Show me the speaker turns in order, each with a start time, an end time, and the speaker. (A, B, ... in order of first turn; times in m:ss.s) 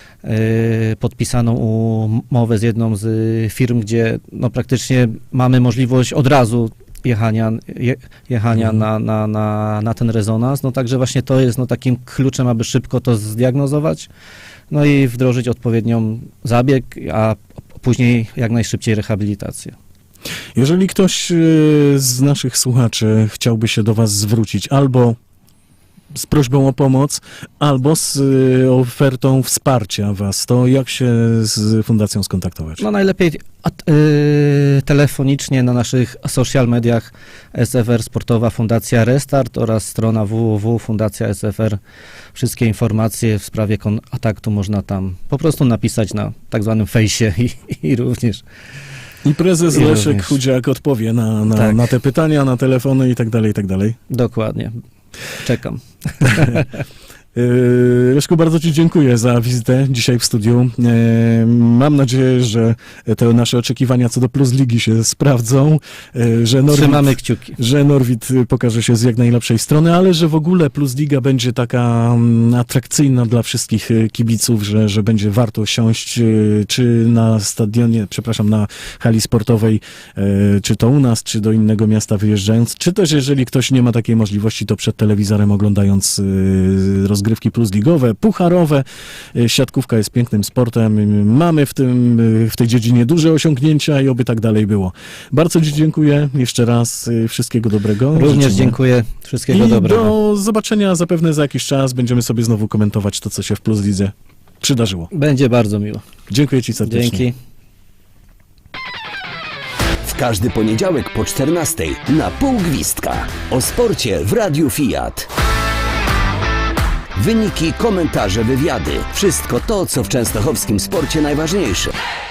0:00.2-0:14.1 A
0:14.7-0:19.8 A
0:20.6-0:25.2 B
0:26.1-0:32.8 B
0:32.8-0:41.8 A
0:42.3-0:48.4 A
0:49.2-0:54.0 B
0:49.7-0:50.4 A
0:51.5-0:51.9 A
0:54.1-0:54.8 A
0:55.4-0:56.7 A
0:56.2-0:56.6 B
0:57.4-1:38.8 B
1:06.7-1:07.6 A
1:38.1-1:40.1 A
1:39.5-1:45.1 B
1:45.1-1:46.0 A
1:46.3-1:47.2 B
1:46.8-1:47.4 A
1:50.0-1:55.3 C
1:57.2-2:01.9 C